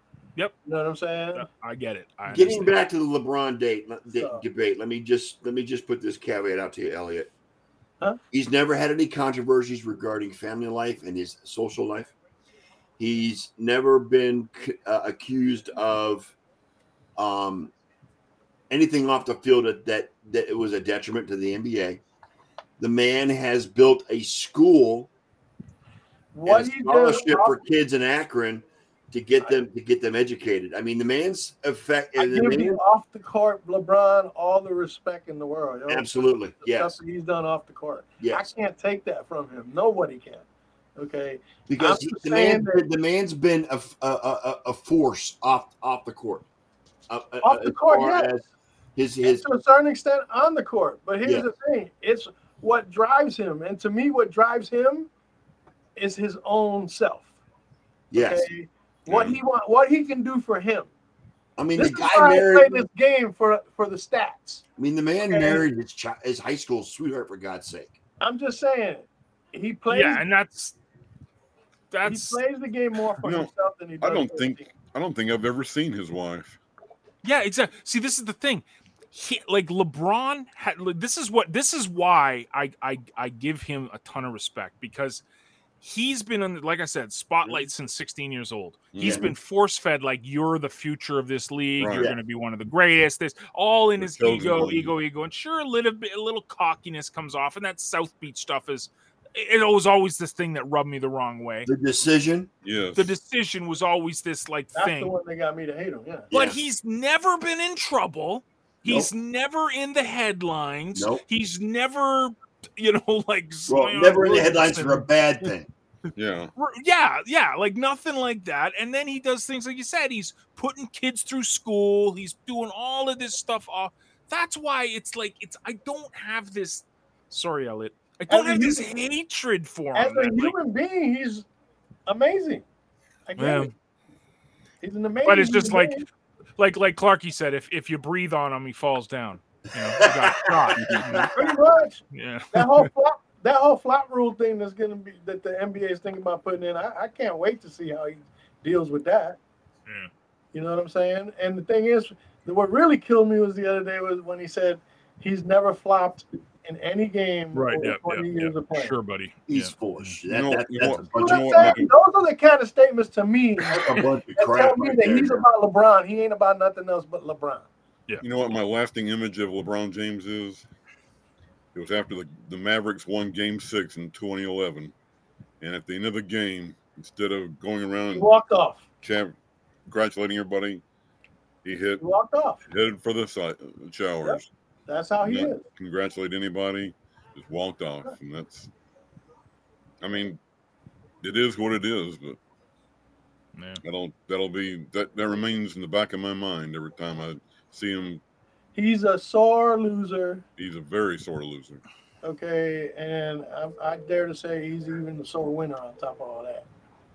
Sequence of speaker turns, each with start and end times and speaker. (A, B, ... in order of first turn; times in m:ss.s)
0:00.6-0:01.4 A
0:01.3-0:02.8 B
0:02.3-0:07.3 C
0:04.2-0:04.4 A
0:08.3-0:12.1 C
0:13.0-0:16.3 C
0:17.2-0:17.7 C
0:18.7-0:22.0 C
0:22.8-0:25.1 C
0:26.3-0:27.6 A
0:26.4-0:32.8 C
0:32.2-0:40.4 A
0:35.9-0:37.0 C
0:38.2-0:38.5 C
0:41.0-0:42.8 A
0:41.7-0:46.4 C
0:47.1-0:49.4 C
0:47.4-0:48.3 A
0:49.2-0:55.1 A
0:51.2-0:51.5 C
0:56.0-0:57.3 A
0:58.1-0:58.5 C
0:58.1-1:00.9 A
0:59.1-0:59.4 D
1:01.6-1:02.8 C
1:01.8-1:04.6 A
1:04.8-1:08.0 C
1:05.3-1:05.6 A
1:08.2-1:10.2 A
1:09.9-1:10.8 B
1:11.9-1:12.4 B
1:12.0-1:14.7 A
1:13.2-1:16.6 D
1:17.2-1:25.2 B
1:25.8-1:41.7 B
1:28.9-1:29.3 D
1:29.0-1:29.3 C
1:31.8-1:32.1 D
1:34.0-1:34.9 D
1:41.6-1:42.5 C
1:42.6-1:43.1 D
1:43.0-1:45.1 B
1:44.7-1:46.3 A
1:46.3-1:46.6 C
1:46.3-1:55.1 B
1:48.8-1:49.1 C
1:50.9-1:51.2 C
1:53.7-1:55.7 C
1:56.1-1:56.5 D
1:56.6-2:10.5 B
2:08.3-2:08.9 A
2:09.9-2:11.4 A
2:12.1-2:12.6 A
2:13.3-2:13.7 A
2:13.4-2:13.7 B
2:14.8-2:16.0 A
2:15.2-2:16.0 B
2:16.6-2:21.3 B
2:20.0-2:21.3 C
2:21.3-2:29.4 A
2:22.1-2:22.9 B
2:30.5-2:38.9 A
2:37.5-2:40.2 B
2:39.5-2:41.9 C
2:40.3-2:41.9 D
2:41.2-2:47.6 A
2:43.6-2:45.4 C
2:48.2-2:50.6 D
2:51.7-2:54.9 D
2:55.6-2:58.3 D
2:58.1-2:58.8 A
2:59.0-2:59.3 D
2:59.9-3:00.8 D
3:01.6-3:02.0 D
3:02.0-3:02.6 A
3:02.7-3:04.5 D
3:04.2-3:05.6 A
3:05.2-3:08.7 D
3:10.0-3:10.4 D
3:11.2-3:12.4 D
3:13.5-3:13.8 B
3:13.8-3:18.2 D
3:18.7-3:20.4 A
3:20.6-3:21.8 D
3:22.2-3:26.7 A